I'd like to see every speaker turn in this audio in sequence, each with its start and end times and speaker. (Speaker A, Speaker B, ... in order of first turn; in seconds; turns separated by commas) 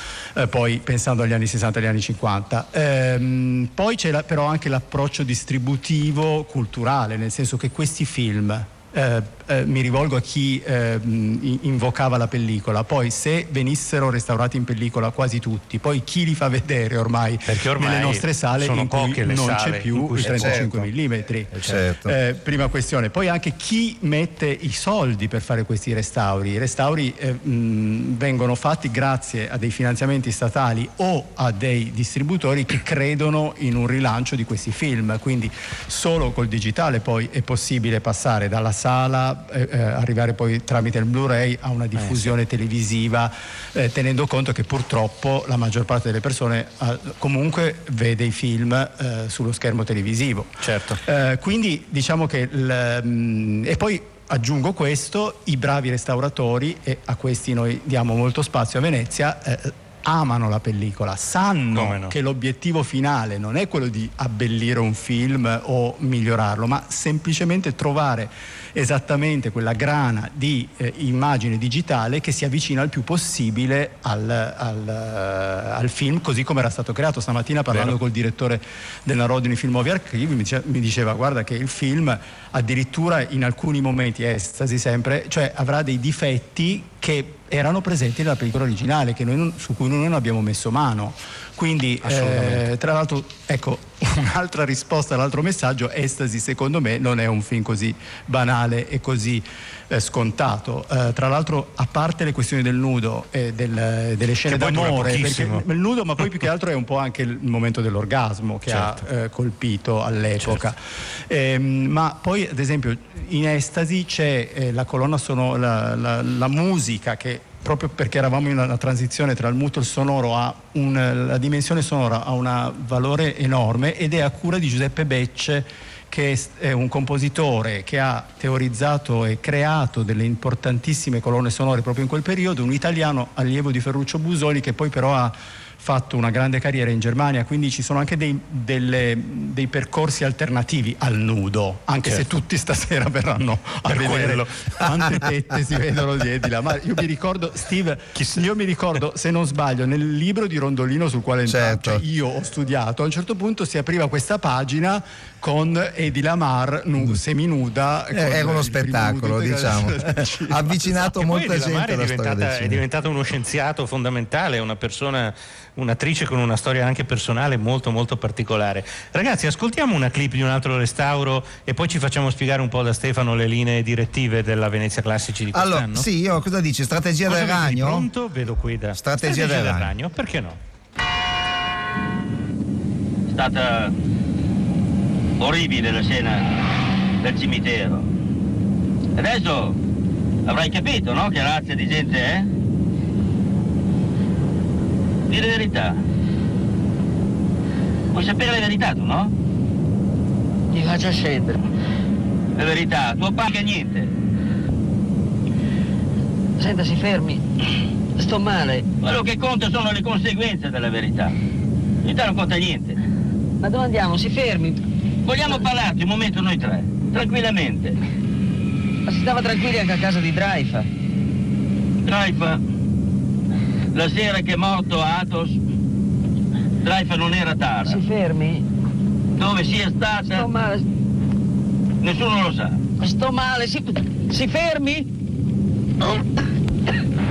Speaker A: 0.3-160.9, Speaker B: 17.4-20.9, Speaker C: 20.4-20.6, Speaker B: 21.5-21.8, Speaker C: 21.6-22.1, Speaker B: 42.0-42.3, Speaker B: 50.6-51.0, Speaker B: 61.7-62.1, Speaker B: 77.7-78.0, Speaker B: 92.0-92.7, Speaker B: 104.5-105.6, Speaker B: 108.7-109.0, Speaker B: 110.4-110.7, Speaker B: 143.8-145.1, Speaker B: 148.1-148.5, Speaker C: 151.5-152.0, Speaker C: 158.1-162.8, Speaker B: 160.9-176.1, Speaker C: 175.5-178.1, Speaker B: 177.2-180.6, Speaker C: 179.0-179.9, Speaker D: 183.3-183.9, Speaker D: 185.4-186.5, Speaker D: 187.2-188.1, Speaker D: 189.2-189.8, Speaker D: 190.4-192.5, Speaker D: 195.3-196.0, Speaker D: 198.1-199.3, Speaker E: 200.7-201.6, Speaker D: 202.6-204.1, Speaker E: 206.6-207.4, Speaker E: 208.2-208.9, Speaker D: 209.0-211.3, Speaker D: 212.0-213.0, Speaker E: 213.6-214.8, Speaker D: 215.2-217.9, Speaker E: 219.1-220.9, Speaker D: 222.0-222.6, Speaker D: 223.9-225.6, Speaker D: 226.8-228.0, Speaker E: 227.8-228.6, Speaker D: 229.3-230.4, Speaker E: 230.3-230.8, Speaker D: 232.0-232.8, Speaker E: 233.0-235.1